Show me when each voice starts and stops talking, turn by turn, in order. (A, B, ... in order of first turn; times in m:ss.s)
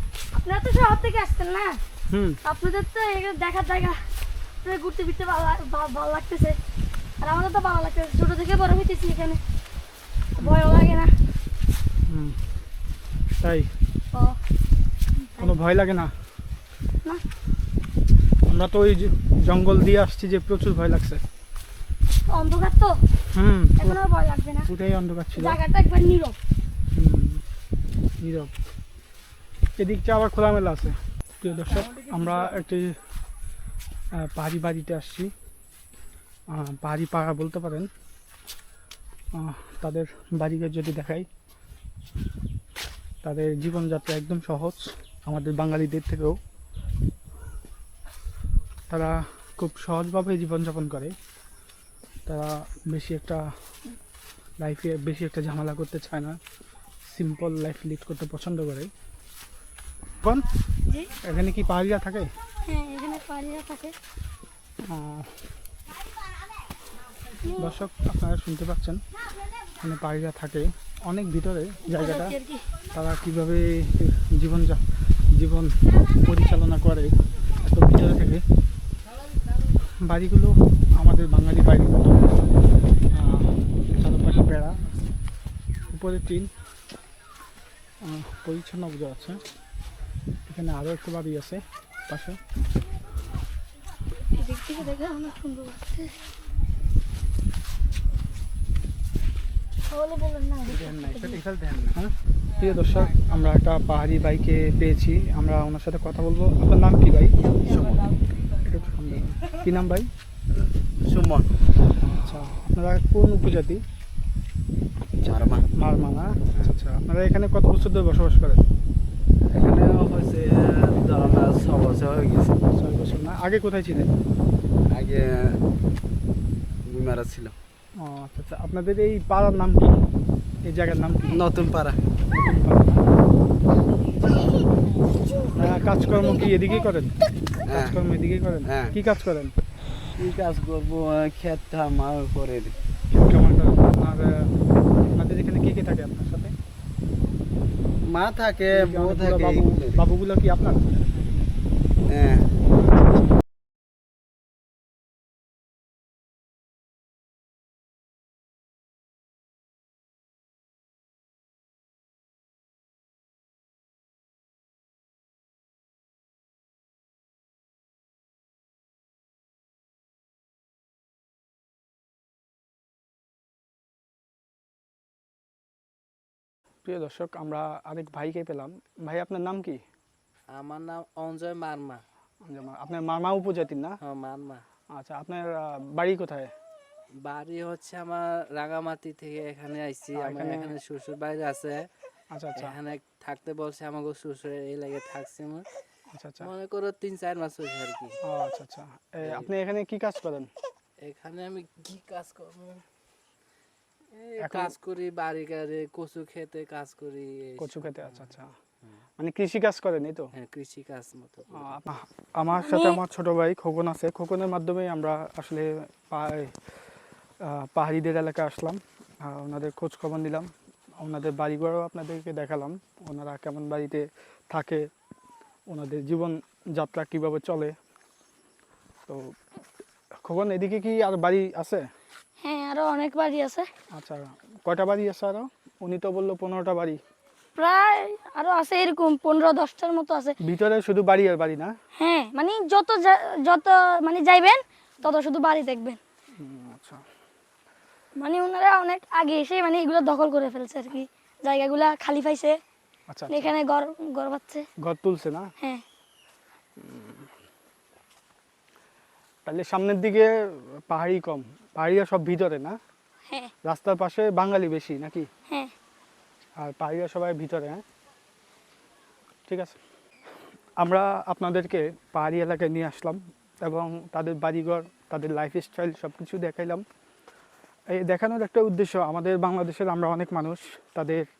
0:00.3-0:01.8 A
0:02.1-0:02.4 B
0:02.4-0:04.0 A
0:04.6-0:06.6 A
0:07.2-0:09.4 A
0:10.4-0:11.1 A
0:12.1-0:12.4 B
0:13.4-0:13.7 B
0:14.1-0:14.4 A
0:15.2-0:15.5 A
0:15.4-0:16.1 B
0:18.5-0:21.2 B
0:22.3-0:23.0 A
0:23.3-0:24.0 B
0:23.8-0:24.7 A
0:24.6-0:25.6 B
0:25.4-0:26.4 A
0:26.9-0:27.4 B
0:28.2-0:28.5 B
0:29.8-0:33.0 B
0:34.2-0:35.3 B
0:36.5-0:37.9 B
0:39.3-0:41.3 B
0:43.2-0:46.4 B
0:48.9-0:51.1 B
0:52.2-0:53.4 B
0:54.6-0:56.4 B
0:57.1-0:58.9 B
1:01.2-1:02.3 B
1:02.6-1:04.0 A
1:04.8-1:05.3 B
1:07.4-1:07.8 A
1:07.6-1:09.0 B
1:09.8-1:12.4 B
1:11.9-1:12.7 A
1:12.9-1:18.4 B
1:20.0-1:22.3 B
1:23.1-1:24.8 B
1:25.9-1:26.5 B
1:28.0-1:29.4 B
1:30.5-1:32.4 B
1:34.3-1:36.2 A
1:39.9-1:41.4 A
1:40.6-1:48.1 B
1:48.6-1:50.1 B
1:51.0-1:51.5 C
1:52.0-1:53.8 B
1:55.2-1:55.6 C
1:55.8-1:58.6 B
1:59.5-2:02.6 C
2:02.8-2:04.1 B
2:04.9-2:05.6 C
2:06.9-2:07.5 C
2:08.0-2:10.0 B
2:10.6-2:11.4 B
2:11.3-2:12.0 C
2:12.3-2:13.0 B
2:15.5-2:17.1 B
2:17.7-2:18.0 C
2:17.7-2:19.5 B
2:18.6-2:19.0 C
2:20.2-2:22.7 C
2:23.1-2:24.5 B
2:25.1-2:26.5 B
2:28.0-2:30.0 C
2:28.7-2:30.8 B
2:32.1-2:32.6 C
2:56.8-2:59.8 B
3:00.5-3:02.0 D
3:02.4-3:04.0 B
3:04.0-3:04.6 D
3:04.9-3:06.5 B
3:07.2-3:11.9 D
3:10.2-3:10.7 B
3:12.3-3:12.8 B
3:12.6-3:15.6 D
3:16.1-3:16.5 B
3:16.4-3:18.2 D
3:18.2-3:20.5 B
3:19.2-3:19.5 D
3:21.0-3:22.8 D
3:24.1-3:28.3 D
3:24.4-3:24.7 B
3:27.6-3:28.5 B
3:29.2-3:30.3 B
3:30.3-3:31.7 D
3:31.5-3:36.5 B
3:32.6-3:33.0 A
3:37.5-3:40.5 B
3:41.0-3:44.8 B
3:45.7-3:47.7 B
3:50.2-3:51.8 B
3:52.4-3:53.7 A
3:53.9-3:57.0 B
3:57.6-4:00.3 A
4:00.4-4:01.7 B
4:02.0-4:06.0 A
4:06.4-4:07.0 B
4:08.2-4:12.6 A
4:13.1-4:13.5 B
4:13.3-4:14.7 A
4:14.8-4:15.5 B
4:15.6-4:15.8 A
4:16.8-4:17.2 B
4:19.4-4:20.3 B
4:20.9-4:22.8 B
4:23.6-4:25.3 B
4:25.5-4:25.7 A
4:26.6-4:27.8 B
4:29.5-4:29.8 B
4:30.8-4:36.8 B
4:37.9-4:41.3 B